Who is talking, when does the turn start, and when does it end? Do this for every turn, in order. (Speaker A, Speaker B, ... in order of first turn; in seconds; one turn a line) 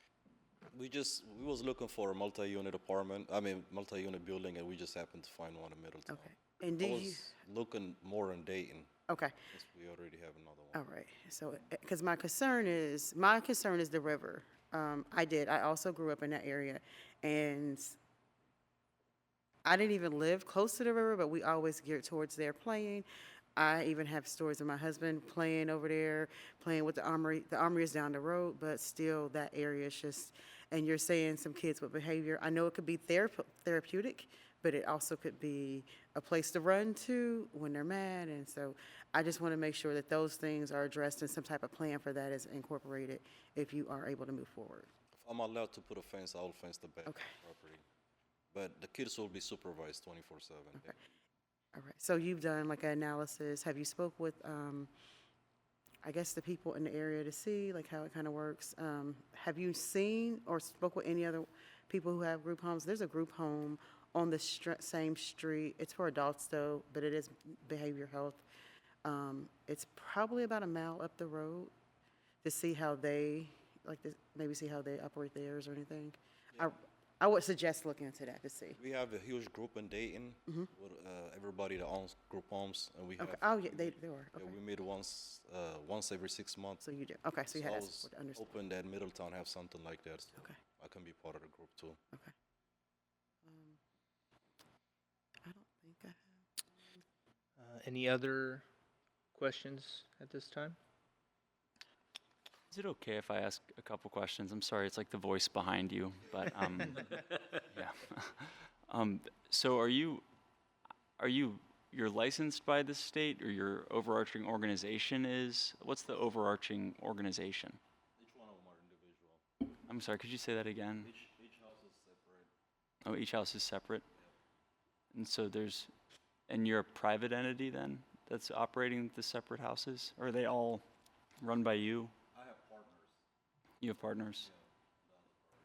Speaker A: 0.7-8.9
Speaker B: 6.1-7.2
Speaker B: 9.1-9.3
Speaker A: 9.5-10.8
Speaker B: 10.7-17.9
Speaker B: 19.6-44.9
Speaker A: 45.2-47.8
Speaker A: 48.5-51.0
Speaker B: 51.7-54.9
Speaker B: 56.0-68.4
Speaker B: 69.0-71.7
Speaker B: 72.4-78.8
Speaker A: 78.8-86.8
Speaker B: 83.2-84.5
Speaker B: 86.8-88.5
Speaker A: 87.5-92.0
Speaker B: 93.4-93.8
Speaker B: 95.5-96.2
Speaker C: 97.6-98.6
Speaker C: 99.3-100.8
Speaker D: 102.7-110.2
Speaker D: 111.2-117.8
Speaker A: 118.2-119.4
Speaker D: 119.8-121.1
Speaker A: 121.0-122.5
Speaker D: 123.0-124.0
Speaker D: 125.1-125.9
Speaker D: 126.5-130.8
Speaker D: 131.4-132.1
Speaker A: 132.3-133.1
Speaker D: 133.8-134.5
Speaker A: 134.4-135.6